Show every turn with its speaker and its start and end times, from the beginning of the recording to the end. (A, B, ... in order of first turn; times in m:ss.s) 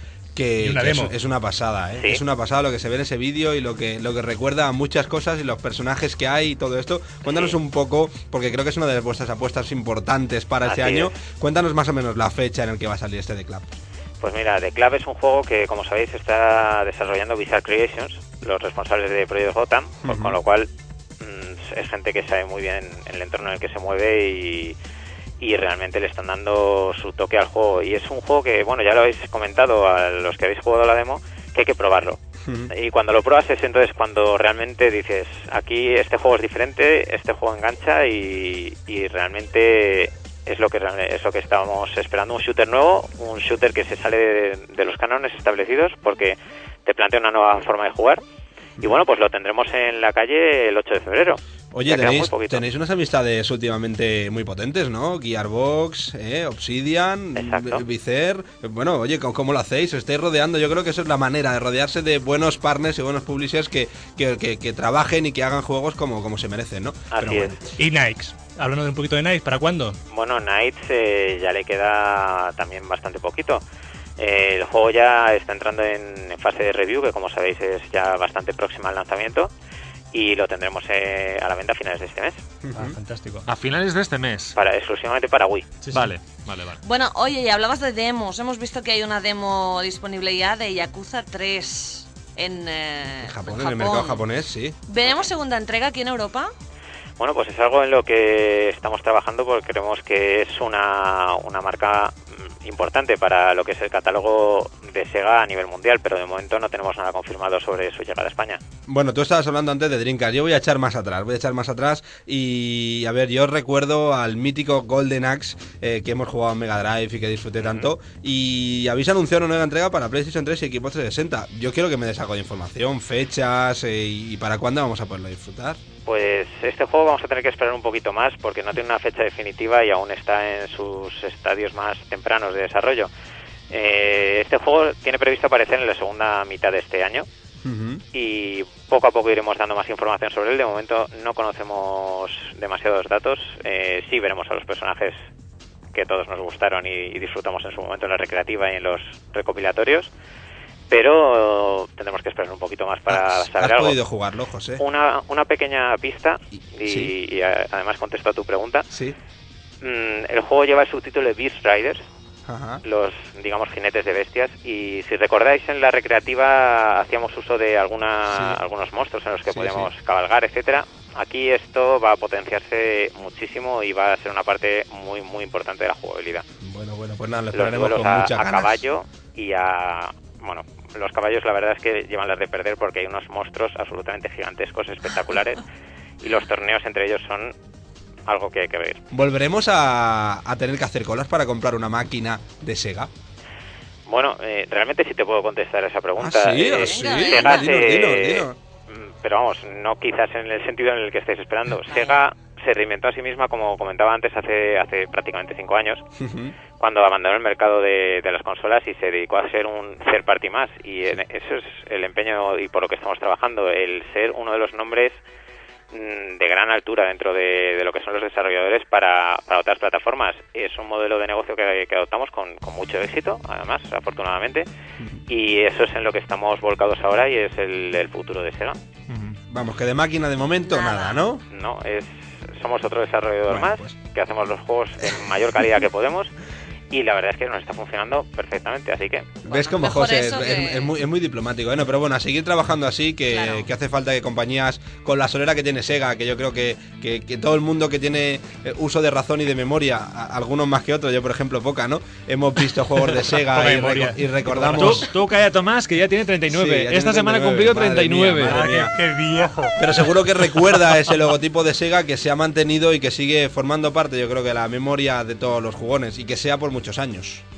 0:00.4-0:13.7 A
0:00.6-0:01.1 B
0:07.2-0:07.6 C
0:10.6-0:11.1 C
0:14.2-0:20.7 C
0:20.0-0:20.4 A
0:21.2-0:24.8 C
0:25.4-0:48.2 C
0:32.4-0:32.7 A
0:48.8-0:52.7 C
0:51.7-1:07.6 A
0:57.4-0:57.8 C
1:07.1-1:07.6 C
1:07.8-1:10.0 B
1:10.1-1:13.6 C
1:14.2-1:19.5 C
1:20.1-1:22.4 C
1:22.6-1:23.0 A
1:22.8-1:23.5 B
1:23.5-1:24.6 D
1:24.6-1:25.7 C
1:25.8-1:26.1 B
1:25.9-1:26.8 D
1:26.8-1:34.2 E
1:33.2-1:34.8 A
1:34.9-1:36.5 E
1:37.2-1:48.6 C
1:48.9-2:05.8 A
1:57.6-1:57.9 C
2:06.1-2:13.1 C
2:13.7-2:17.3 C
2:17.6-2:18.0 A
2:18.1-2:25.2 C
2:25.9-2:30.1 C
2:30.9-2:34.0 C
2:33.1-2:34.8 A
2:34.8-2:38.9 C
2:36.6-2:37.1 A
2:38.9-2:39.2 A
2:39.8-2:42.0 C
2:42.5-2:42.8 A
2:42.8-2:56.4 C
2:48.3-2:48.6 A
2:49.5-2:49.9 A
2:56.6-2:58.8 A
2:57.5-3:05.6 C
3:06.2-3:07.5 C
3:08.3-3:09.0 C
3:09.1-3:13.1 A
3:14.1-3:26.0 C
3:16.2-3:18.6 A
3:16.7-3:17.8 E
3:21.9-3:22.2 E
3:26.2-3:26.5 A
3:26.8-3:35.2 C
3:35.9-3:44.7 C
3:45.3-3:48.8 C
3:49.1-3:49.4 D
3:49.5-3:51.4 A
3:50.6-3:51.2 E
3:51.5-3:56.3 C
3:53.5-3:54.0 A
3:56.9-3:59.4 C
3:59.5-4:00.9 E
3:59.5-4:15.1 A
4:03.3-4:03.7 E
4:13.5-4:15.1 B
4:14.8-4:18.7 D
4:16.5-4:18.9 A
4:18.5-4:20.1 B
4:19.8-4:27.4 A